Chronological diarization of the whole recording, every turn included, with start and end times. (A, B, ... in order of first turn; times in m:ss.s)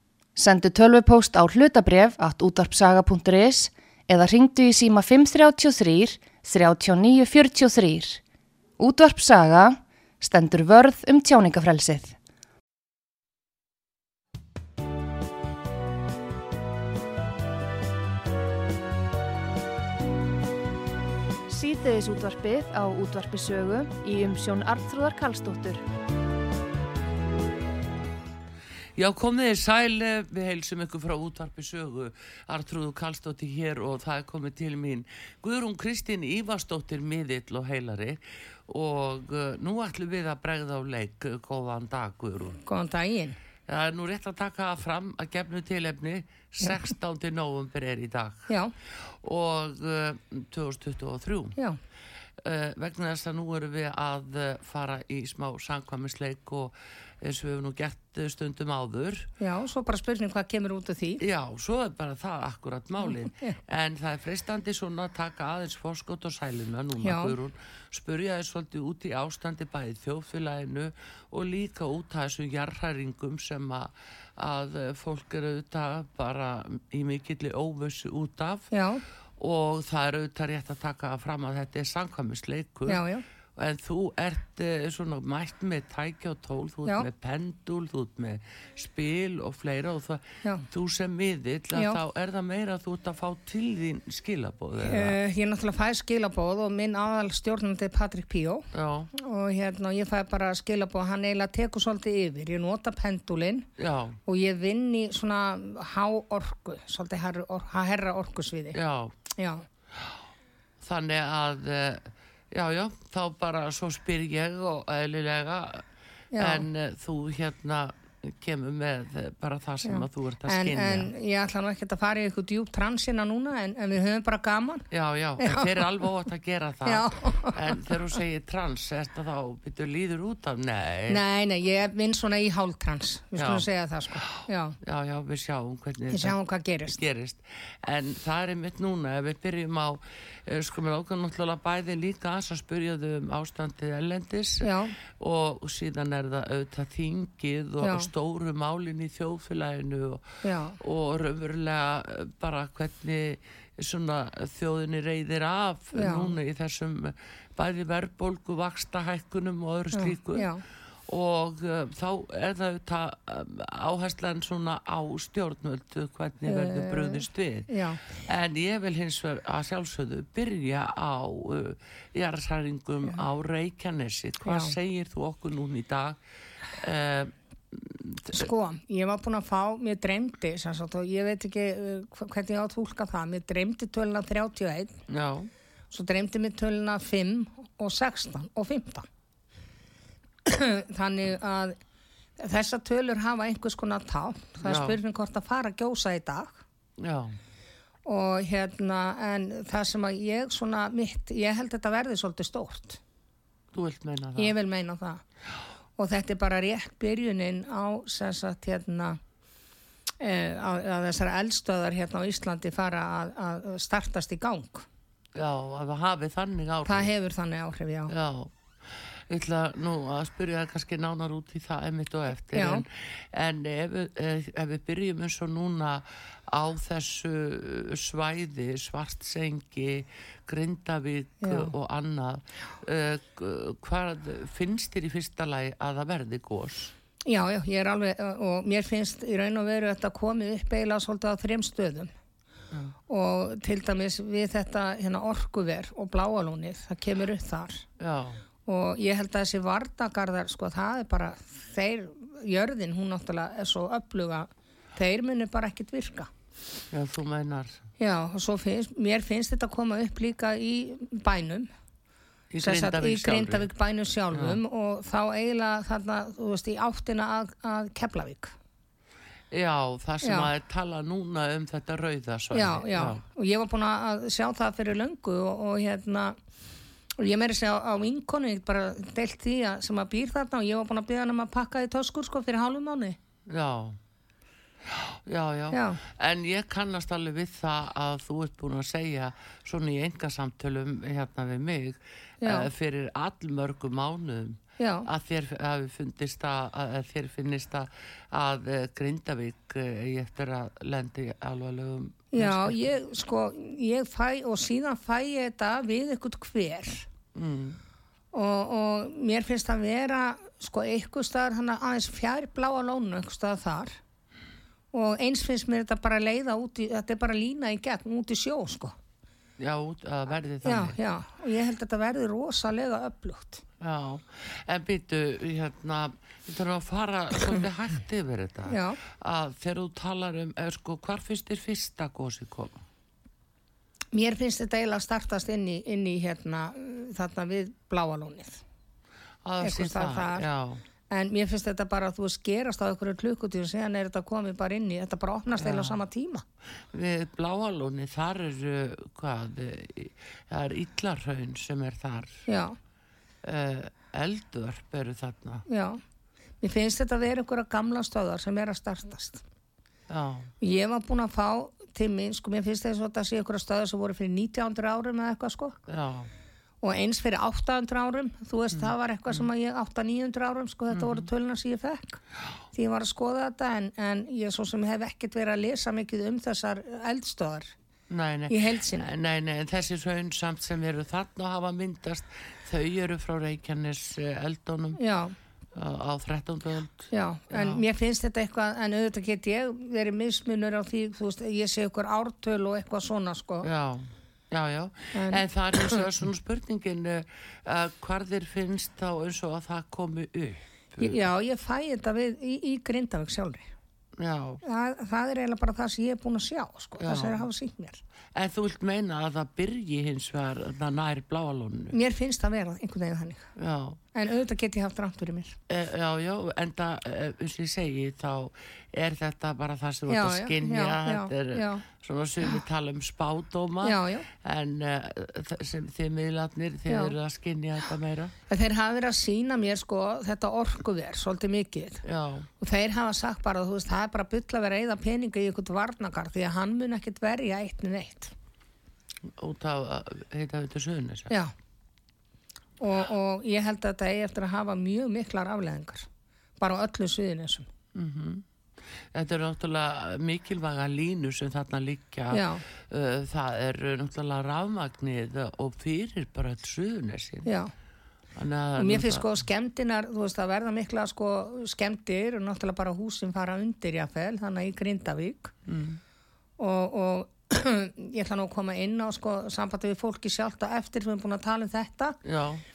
0:00.4-0:08.2 A
0:08.8-0:12.2 A
0:21.5-0:25.8 A
0:29.0-0:42.6 B
0:42.6-0:43.4 C
0:43.7-0:51.6 B
0:52.4-0:59.3 B
0:59.4-1:01.2 C
1:01.2-1:18.7 B
1:03.1-1:03.6 C
1:07.0-1:07.4 C
1:18.7-1:19.0 C
1:19.4-1:23.0 B
1:22.9-1:23.2 C
1:23.5-1:35.2 B
1:31.7-1:32.0 C
1:34.8-1:43.7 C
1:38.7-1:39.1 B
1:43.8-1:44.2 B
1:44.2-1:48.8 C
1:48.7-1:49.1 B
1:49.3-1:49.6 C
1:50.8-1:55.8 B
1:56.3-1:56.7 C
1:56.4-2:01.1 B
1:59.8-2:04.9 C
2:04.9-2:11.2 B
2:05.4-2:06.0 C
2:06.8-2:08.0 C
2:11.1-2:14.8 C
2:13.4-2:14.2 B
2:14.8-2:16.3 B
2:16.1-2:17.0 C
2:16.9-2:40.5 B
2:24.6-2:24.9 C
2:27.8-2:28.1 C
2:30.4-2:30.8 C
2:35.9-2:36.3 C
2:39.9-2:40.6 C
2:41.1-2:56.2 B
2:46.4-2:48.1 C
2:54.4-2:54.7 C
2:56.7-2:58.5 B
2:58.3-3:05.0 C
3:05.1-3:05.5 B
3:05.9-3:09.1 C
3:10.4-3:11.8 C
3:12.4-3:16.6 C
3:14.6-3:15.0 B
3:17.0-3:17.4 B
3:18.0-3:23.0 C
3:23.7-3:24.6 B
3:24.4-3:25.2 C
3:26.0-3:29.2 C
3:30.2-3:34.8 C
3:35.3-3:37.1 B
3:36.8-3:38.1 C
3:38.1-3:38.5 B
3:39.3-3:56.9 B
3:42.5-3:42.8 C
3:51.4-3:51.7 C
3:57.2-4:02.1 C
4:03.1-4:07.8 C
4:08.0-4:08.4 B
4:08.6-4:16.3 C
4:16.9-4:17.8 B
4:18.0-4:21.7 C
4:22.5-4:23.7 B
4:22.6-4:28.5 C
4:24.3-4:24.6 B
4:29.5-4:33.2 B
4:30.2-4:30.5 C
4:32.5-4:36.4 C
4:37.2-4:43.2 C
4:43.5-4:44.0 B
4:44.8-5:02.9 B
4:45.7-4:46.0 C
4:52.4-4:52.7 C
4:54.8-4:55.1 C
5:02.3-5:07.1 C
5:07.3-5:07.8 B
5:08.3-5:14.0 C
5:14.9-5:19.0 C
5:19.6-5:21.0 B
5:20.6-5:23.6 C
5:23.8-5:32.8 B
5:28.7-5:29.0 C
5:34.1-5:38.6 C
5:39.4-5:40.8 B
5:39.6-5:40.5 C
5:41.1-5:46.4 C
5:45.6-5:46.0 B
5:46.9-5:52.4 B
5:52.5-5:52.8 C
5:53.4-5:55.6 B
5:55.7-5:56.0 C
5:56.6-5:59.4 C
6:00.1-6:00.5 B
6:00.6-6:05.8 C
6:05.9-6:06.3 B
6:06.8-6:12.2 C
6:08.8-6:09.4 B
6:10.9-6:11.3 B
6:12.7-6:17.7 C
6:18.1-6:25.0 B
6:18.5-6:19.1 C
6:25.0-6:25.4 C
6:25.7-6:27.8 B
6:27.1-6:33.7 C
6:33.6-6:41.2 B
6:35.1-6:36.0 C
6:41.0-6:43.7 C
6:44.2-6:44.6 B
6:44.6-6:48.0 C
6:47.0-6:47.5 B
6:48.3-6:52.0 B
6:51.9-6:53.5 C
6:53.6-6:54.0 B
6:54.1-6:55.6 C
6:55.7-7:08.3 B
7:00.1-7:01.8 C
7:03.8-7:04.3 C
7:08.5-7:12.0 C
7:12.0-7:12.5 B
7:12.6-7:18.3 C
7:19.3-7:21.3 B
7:22.8-7:26.1 C
7:26.6-7:27.7 C
7:27.9-7:28.4 B
7:29.1-7:37.5 B
7:32.3-7:32.6 C
7:37.4-7:37.7 C
7:38.3-7:39.3 B
7:38.8-7:45.5 C
7:45.6-7:46.0 B
7:46.6-7:52.2 C
7:52.2-7:52.6 B